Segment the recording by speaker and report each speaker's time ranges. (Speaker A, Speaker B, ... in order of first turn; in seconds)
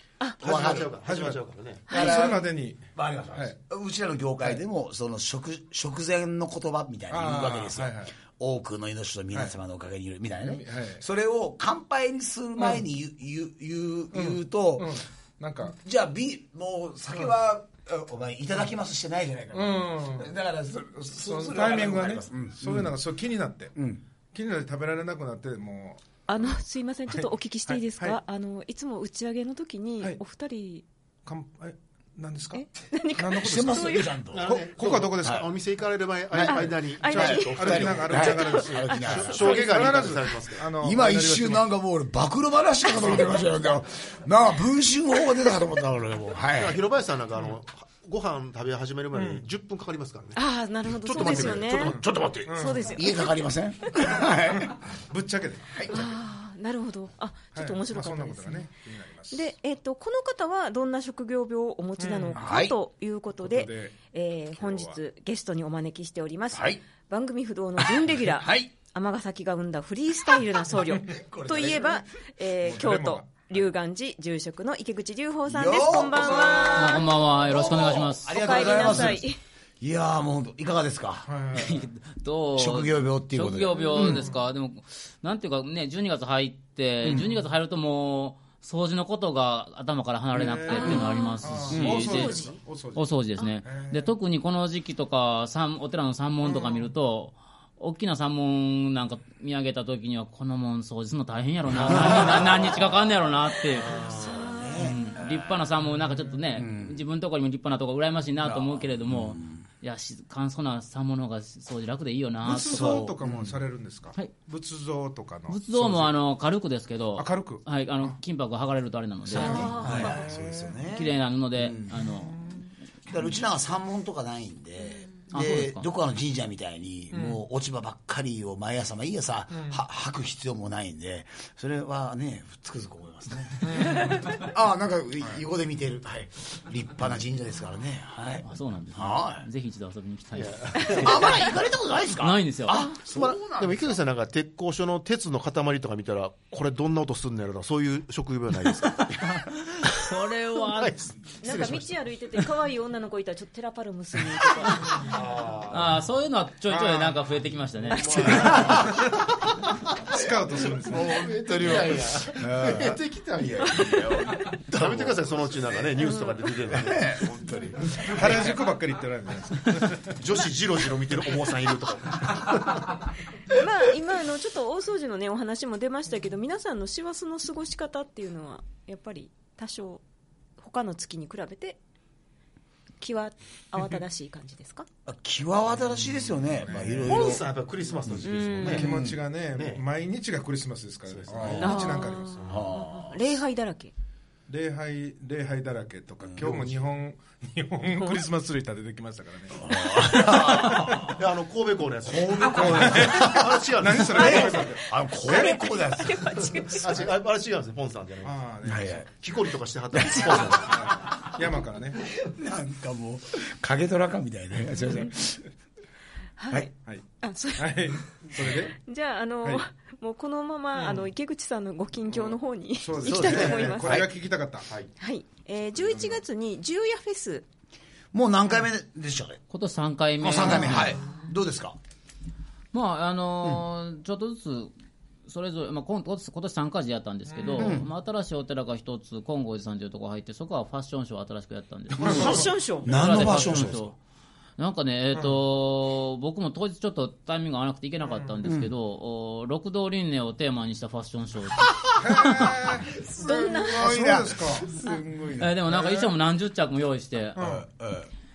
Speaker A: 0.4-0.9, 1.9-15.0, 15.8-22.9, 23.8-24.0, 33.4-34.6, 35.2-35.5, 36.3-40.1, 40.8-46.8, 51.2-54.8, 62.3-62.7, 66.5-66.8, 67.8-68.7, 71.0-72.0, 75.5-79.3, 79.8-81.7, 82.6-84.2, 87.0-87.3, 91.7-92.1, 101.8-102.9, 103.9-105.3, 106.6-107.0, 108.5-109.6, 112.5-113.7, 119.3-122.0, 123.1-139.5, 140.9-144.0, 158.3-159.1, 160.9-163.0, 163.6-165.7, 166.7-168.5, 185.1-187.4, 188.1-189.2, 192.5-193.2, 196.2-196.7, 199.5-201.2, 202.1-203.4, 204.1-206.5, 208.7-209.1, 209.9-211.1, 212.0-215.5, 223.0-224.1, 228.1-229.4, 230.2-231.8, 237.6-237.9, 242.0-243.9, 248.4-248.7, 251.7-255.6, 257.4-258.1
Speaker B: 0.4-1.9, 34.3-40.7, 46.6-52.1, 103.9-104.3, 140.3-141.4, 143.1-149.2, 150.6-151.9, 154.8-156.0, 157.9-159.5, 160.1-168.5, 169.9-172.9, 187.1-188.9, 189.5-189.8, 191.1-192.7, 200.3-204.7, 206.7-208.4, 209.1-211.1
Speaker C: 1.0-3.6, 7.1-8.2, 10.4-11.0, 12.6-12.8, 14.1-15.8, 19.5-20.3, 21.2-23.7, 24.3-26.0, 27.1-28.2, 31.3-35.5, 36.4-41.6, 49.1-49.4, 51.8-52.9, 54.2-56.1, 57.5-59.5, 62.0-62.5, 63.4-64.0, 64.6-65.0, 72.6-73.6, 81.3-81.8, 84.0-84.4, 90.3-93.0, 93.6-94.1, 112.5-116.1, 117.2-117.6, 119.9-120.7, 122.3-122.6, 127.1-127.4, 133.6-134.4, 156.7-157.2, 157.9-159.0, 160.1-161.8, 168.1-170.1, 186.6-187.4, 188.6-192.3, 194.5-201.1, 202.4-206.0, 208.2-209.1, 210.3-212.1, 216.8-218.8, 220.8-221.0, 222.8-224.7, 225.8-226.2, 237.5-237.7, 242.1-242.4, 252.0-254.8, 255.7-256.1, 257.4-257.7
Speaker D: 1.9-2.4, 26.3-30.9, 32.5-34.1, 36.5-39.8, 50.4-53.4, 55.9-58.7, 59.3-77.1, 78.3-79.4, 90.7-92.6, 104.2-104.9, 119.4-120.3, 151.4-155.1, 157.9-158.4, 163.7-164.6, 166.0-166.5, 173.5-180.0, 180.6-181.8, 183.0-184.9, 188.3-188.8, 191.6-193.9, 205.3-206.9, 216.4-217.8, 218.7-224.1, 225.0-227.5, 242.0-243.2, 253.2-255.0
Speaker E: 76.7-79.1, 81.5-104.1, 104.8-113.1, 115.5-120.2, 120.9-122.5, 125.3-125.9, 138.4-141.1, 142.2-142.8, 149.2-151.0, 155.7-158.6, 229.5-231.0, 232.7-234.7, 235.3-244.0, 244.6-252.5, 255.4-257.4